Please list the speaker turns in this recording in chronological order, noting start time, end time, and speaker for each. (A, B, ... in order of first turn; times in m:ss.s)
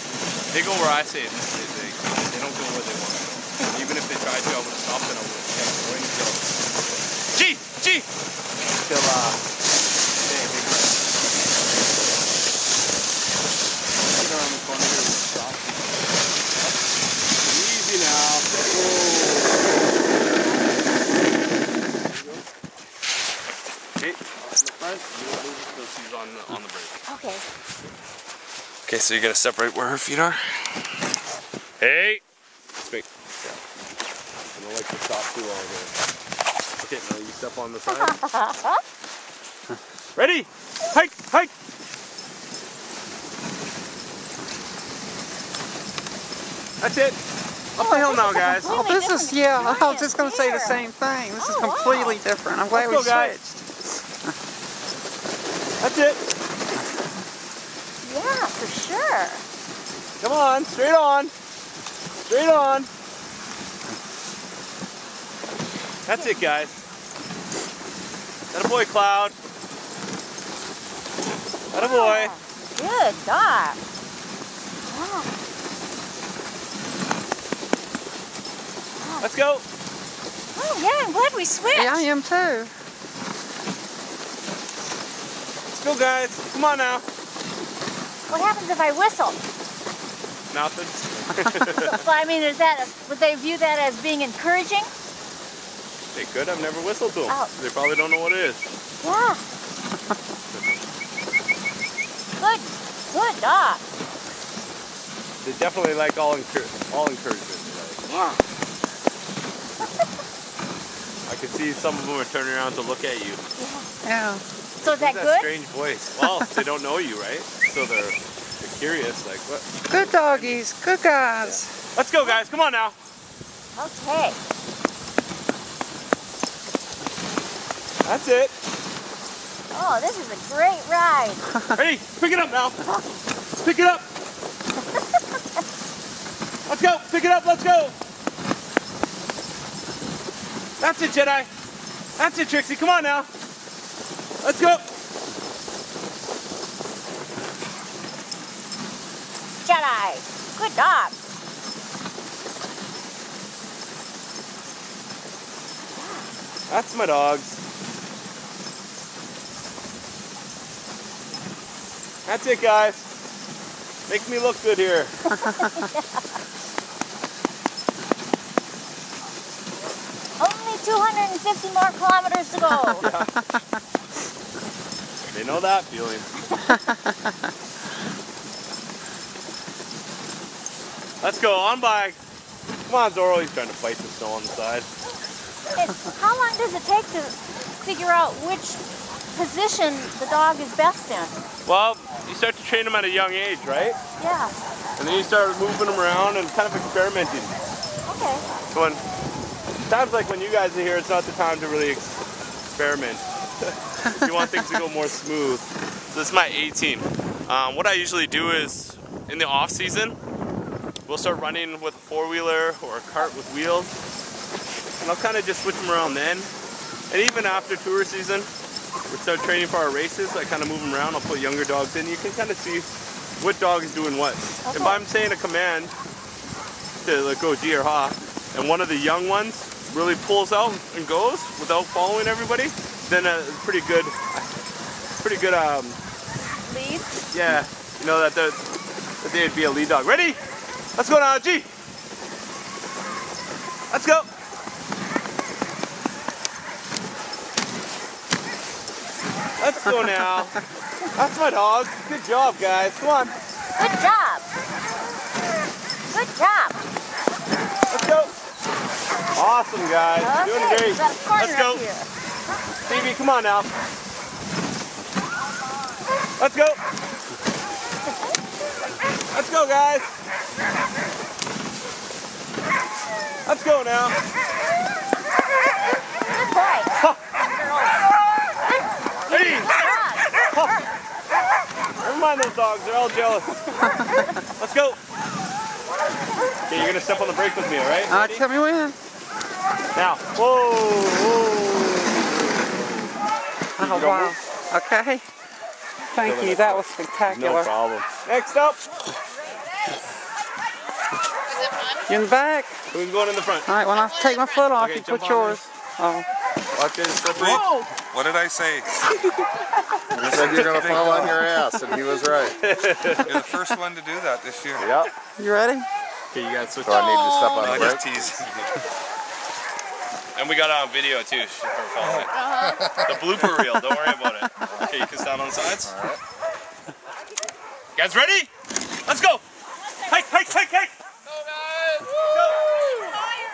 0:00.5-0:06.5 A
0:07.3-0:08.1 A
0:08.7-0:09.4 A
0:10.2-0:11.0 A
0:14.1-0:15.8 A
0:17.5-0:20.5 A
0:22.0-0:22.4 A
0:24.0-0:27.0 A
0:27.1-0:27.4 B
0:28.9-0:30.8 A
0:31.8-0:32.2 A
0:32.8-0:33.6 A
0:34.5-0:35.9 A
0:36.8-0:38.2 A
0:37.9-0:38.8 B
0:40.2-0:41.5 A
0:46.8-0:47.2 A
0:47.8-0:48.7 A
0:47.8-0:52.2 B
0:48.7-0:54.0 C
0:52.7-0:53.3 A
0:55.8-0:56.2 A
0:58.0-0:59.4 B
1:00.2-1:01.3 A
1:02.2-1:02.9 A
1:06.0-1:06.8 A
1:06.1-1:06.6 B
1:08.5-1:09.4 A
1:11.7-1:12.3 A
1:11.7-1:13.8 B
1:14.8-1:15.3 B
1:19.0-1:19.3 B
1:19.2-1:19.6 A
1:20.5-1:22.1 B
1:21.7-1:22.7 C
1:25.7-1:27.0 A
1:28.3-1:29.4 B
1:30.5-1:32.0 A
1:31.9-1:34.9 B
1:36.1-1:38.7 A
1:39.0-1:39.4 B
1:42.4-1:43.8 B
1:45.4-1:48.0 A
1:48.0-1:48.4 B
1:51.3-1:53.4 A
1:53.6-1:53.9 B
1:54.0-1:54.4 C
1:54.8-2:00.6 A
1:54.8-1:55.5 B
1:59.9-2:01.7 C
2:01.4-2:03.0 A
2:03.8-2:04.4 B
2:08.0-2:08.5 A
2:09.7-2:11.5 B
2:11.7-2:12.8 A
2:13.6-2:14.0 A
2:16.7-2:17.9 A
2:20.8-2:21.5 A
2:22.2-2:23.3 A
2:24.4-2:24.8 A
2:29.6-2:31.1 B
2:35.9-2:36.3 B
2:36.7-2:37.6 A
2:42.2-2:43.1 A
2:44.1-2:45.3 A
2:45.3-2:46.1 B
2:50.4-2:53.0 B
2:52.9-2:53.4 A
2:55.3-2:56.3 A
2:56.5-2:56.8 B
3:01.2-3:02.2 A
3:02.9-3:04.9 A
3:05.7-3:08.8 B
3:09.3-3:11.4 B
3:11.6-3:14.0 A
3:14.2-3:14.5 B
3:15.0-3:17.6 A
3:18.0-3:18.5 B
3:18.7-3:19.0 A
3:19.9-3:22.2 A
3:22.7-3:30.2 A
3:31.0-3:33.9 A
3:35.0-3:36.5 A
3:37.1-3:38.5 A
3:39.1-3:42.9 A
3:43.4-3:45.9 A
3:44.6-3:45.0 B
3:47.0-3:54.4 A
3:55.2-3:56.0 A
3:56.6-3:57.2 B
3:57.3-3:58.6 A
3:59.2-4:00.4 A
4:01.0-4:01.7 A
4:03.9-4:04.3 A
4:09.6-4:10.6 A
4:11.1-4:13.3 A
4:13.8-4:14.4 B
4:16.1-4:16.8 B
4:17.9-4:18.3 A
4:19.3-4:21.8 A
4:20.2-4:22.1 B
4:22.9-4:23.7 A
4:26.4-4:26.8 A
4:29.3-4:30.1 A
4:33.4-4:34.2 A
4:36.3-4:38.0 B
4:39.2-4:40.3 B
4:39.3-4:39.8 A
4:40.4-4:40.8 A
4:42.0-4:43.8 A
4:44.0-4:44.3 B
4:44.6-4:45.0 A
4:46.6-4:48.4 A
4:48.1-4:49.0 C
4:49.9-4:52.4 A
4:53.8-4:54.4 A
4:53.8-4:55.2 C
4:56.1-4:57.7 C
4:56.2-4:58.8 A
5:02.1-5:02.8 C
5:02.9-5:03.7 A
5:03.6-5:06.3 C
5:04.8-5:05.7 A
5:06.7-5:07.9 A
5:07.3-5:09.0 D
5:10.1-5:11.5 D
5:10.2-5:12.6 E
5:10.4-5:10.8 A
5:12.6-5:13.5 A
5:13.2-5:14.9 D
5:14.8-5:15.1 A
5:15.4-5:15.9 C
5:16.3-5:18.6 A
5:16.8-5:18.2 E
5:17.6-5:18.0 D
5:20.4-5:22.3 A
5:22.4-5:22.8 B
5:22.9-5:26.1 A
5:28.0-5:28.5 A
5:29.0-5:29.4 A
5:30.1-5:30.9 A
5:32.3-5:32.7 A